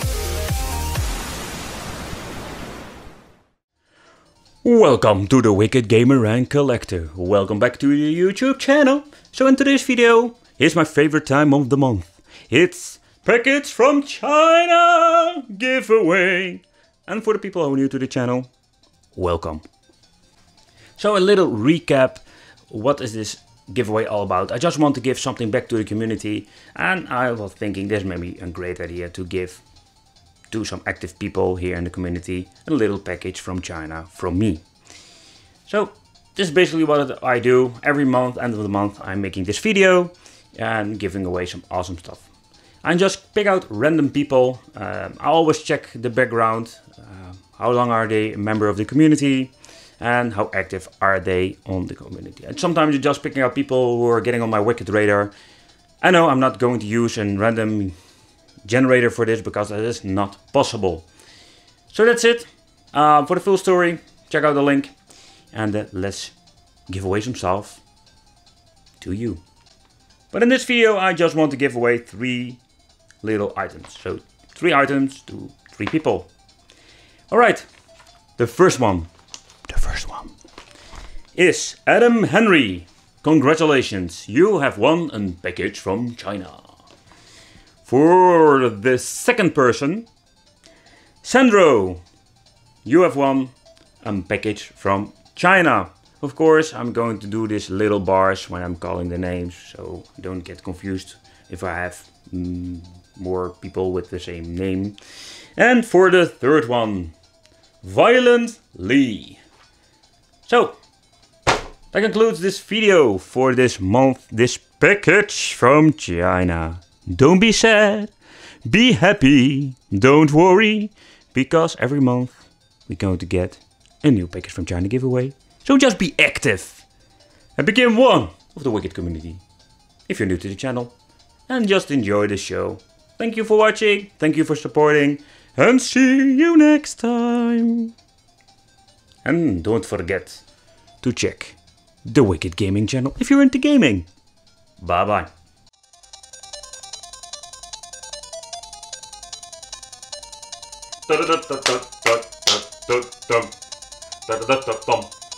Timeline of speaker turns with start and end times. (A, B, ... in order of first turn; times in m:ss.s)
0:04.6-0:18.5 A
0:19.1-0:19.6 A
0:21.0-0:29.6 A
0:30.5-0:34.6 A
0:35.7-0:42.3 A
0:42.8-0:55.3 A
0:56.0-0:57.9 A
0:58.6-1:01.0 A
1:01.9-1:04.9 A
1:05.5-1:06.3 A
1:06.9-1:07.8 A
1:09.0-1:09.4 A
1:10.3-1:12.6 A
1:13.2-1:16.3 A
1:17.3-1:17.6 A
1:18.4-1:19.1 A
1:19.7-1:20.3 A
1:21.3-1:26.8 A
1:27.8-1:30.1 A
1:31.2-1:32.0 A
1:32.8-1:45.0 A
1:45.6-1:47.1 A
1:47.8-1:49.4 A
1:50.4-1:50.8 A
1:51.9-1:58.1 A
1:58.6-2:06.8 A
2:07.6-2:09.4 A
2:10.1-2:10.9 A
2:11.5-2:17.9 A
2:19.2-2:20.4 A
2:21.0-2:24.1 A
2:24.8-2:25.3 A
2:31.1-2:33.5 A
2:34.2-2:35.1 A